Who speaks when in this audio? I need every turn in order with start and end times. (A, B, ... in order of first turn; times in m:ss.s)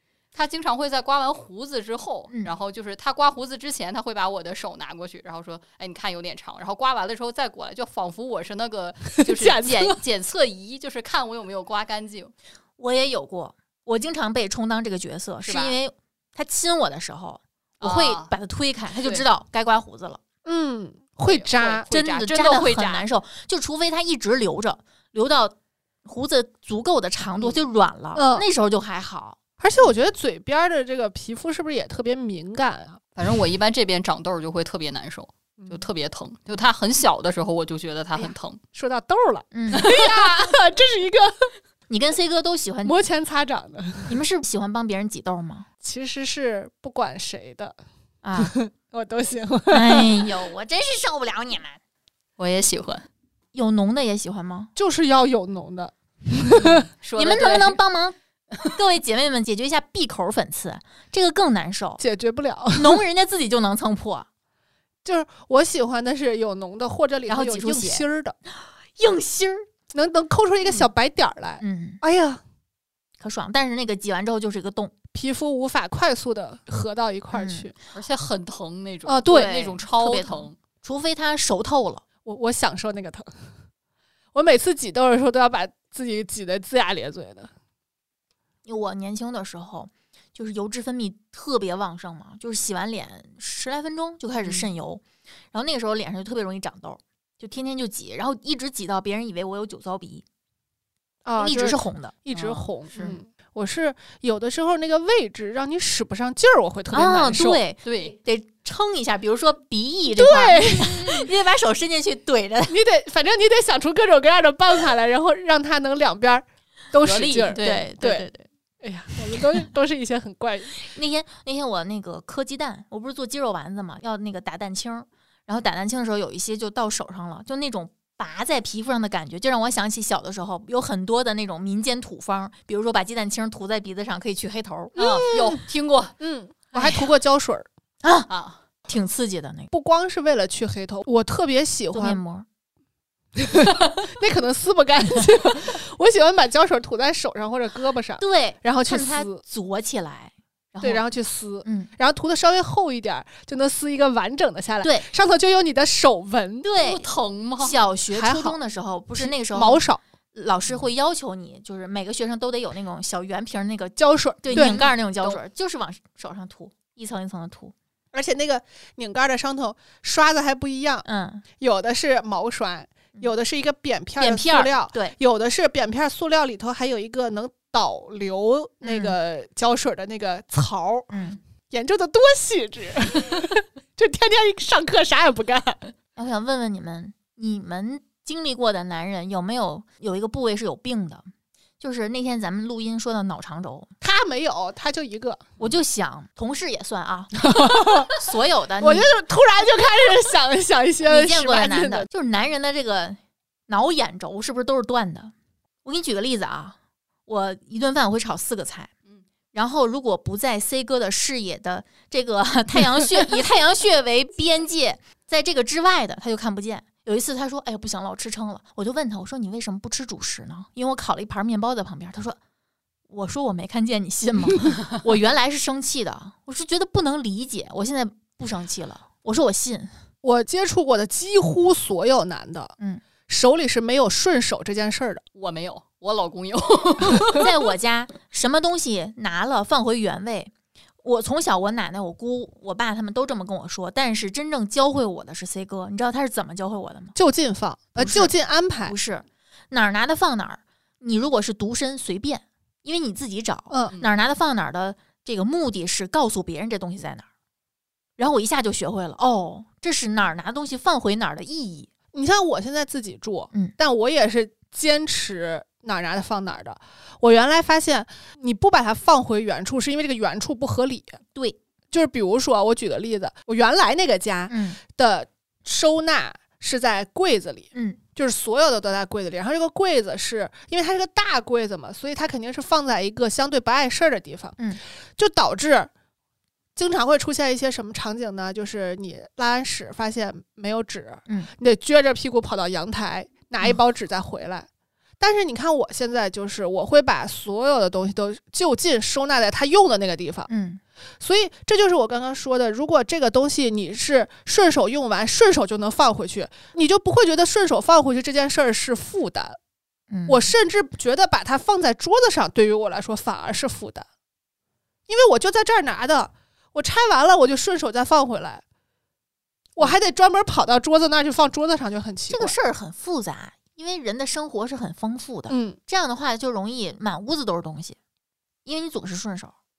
0:00.3-0:12.3 A
0:09.2-0:10.0 B
0:12.8-0:20.2 C
0:15.4-0:15.8 A
0:17.8-0:18.3 A
0:20.4-0:21.8 B
0:21.2-0:23.0 A
0:21.9-0:29.4 C
0:28.2-0:28.4 B
0:29.6-0:33.0 B
0:33.2-0:38.6 A
0:38.2-0:41.5 B
0:39.5-0:39.9 C
0:39.8-0:40.2 A
0:41.9-0:43.0 C
0:42.8-0:44.2 B
0:44.1-0:45.7 C
0:45.8-0:47.8 B
0:48.2-0:48.5 C
0:48.4-0:50.3 B
0:49.7-0:51.8 C
0:52.4-0:53.0 A
0:53.5-0:54.7 C
0:54.8-0:56.9 B
0:57.0-0:57.8 A
0:57.2-1:02.0 C
1:02.0-1:03.0 B
1:02.7-1:04.3 C
1:05.0-1:08.3 B
1:07.3-1:09.7 C
1:09.9-1:12.4 B
1:11.6-1:12.0 C
1:13.2-1:14.9 C
1:15.1-1:17.7 B
1:17.3-1:17.7 C
1:17.9-1:20.5 A
1:19.0-1:19.6 B
1:19.3-1:22.0 C
1:22.2-1:23.3 B
1:24.3-1:27.5 B
1:28.6-1:40.2 C
1:41.2-1:47.6 B
1:41.4-1:42.1 C
1:42.3-1:43.2 A
1:46.9-1:52.8 C
1:47.8-1:48.1 A
1:50.2-1:51.3 B
1:52.7-1:58.3 B
1:57.0-1:57.9 A
1:57.6-1:58.4 C
1:58.8-2:00.7 B
2:00.8-2:14.9 C
2:15.0-2:15.6 B
2:15.0-2:16.1 A
2:16.2-2:17.7 B
2:18.0-2:18.3 C
2:18.3-2:18.6 A
2:18.9-2:19.7 C
2:19.7-2:22.2 B
2:21.9-2:22.4 C
2:23.4-2:29.4 B
2:28.2-2:31.0 C
2:30.8-2:36.7 B
2:31.6-2:31.9 C
2:34.8-2:35.1 C
2:36.6-2:37.0 C
2:36.8-2:37.8 A
2:37.6-2:39.8 C
2:38.1-2:38.6 B
2:39.2-2:40.0 B
2:40.3-2:47.7 C
2:44.0-2:44.9 B
2:44.5-2:45.4 A
2:48.1-2:51.0 B
2:51.0-2:51.4 C
2:51.6-3:01.1 B
2:54.2-2:55.1 C
2:58.8-2:59.2 C
3:01.1-3:01.4 C
3:01.7-3:05.8 B
3:06.2-3:11.3 C
3:11.8-3:13.9 C
3:14.0-3:15.5 B
3:15.6-3:19.1 C
3:17.5-3:18.1 B
3:18.8-3:22.1 B
3:21.0-3:25.3 C
3:25.8-3:28.9 C
3:29.5-3:42.4 C
3:43.1-3:49.9 C
3:50.2-3:52.8 B
3:53.3-3:55.2 B
3:55.3-3:57.5 A
3:57.3-4:00.5 C
4:01.0-4:07.2 C
4:07.1-4:09.0 B
4:08.0-4:08.3 C
4:08.8-4:17.2 C
4:13.7-4:14.0 B
4:18.2-4:21.9 C
4:22.1-4:31.2 B
4:31.9-4:44.6 B
4:34.5-4:34.8 C
4:37.7-4:38.0 C
4:45.2-4:45.9 B
4:46.8-4:54.7 B
4:55.2-5:00.5 B
5:00.5-5:00.8 C
5:01.2-5:09.6 B
5:10.1-5:10.5 C
5:10.3-5:14.0 B
5:15.1-5:18.6 B
5:19.8-5:22.5 B
5:22.3-5:28.0 C
5:25.5-5:25.8 B
5:28.6-5:29.5 C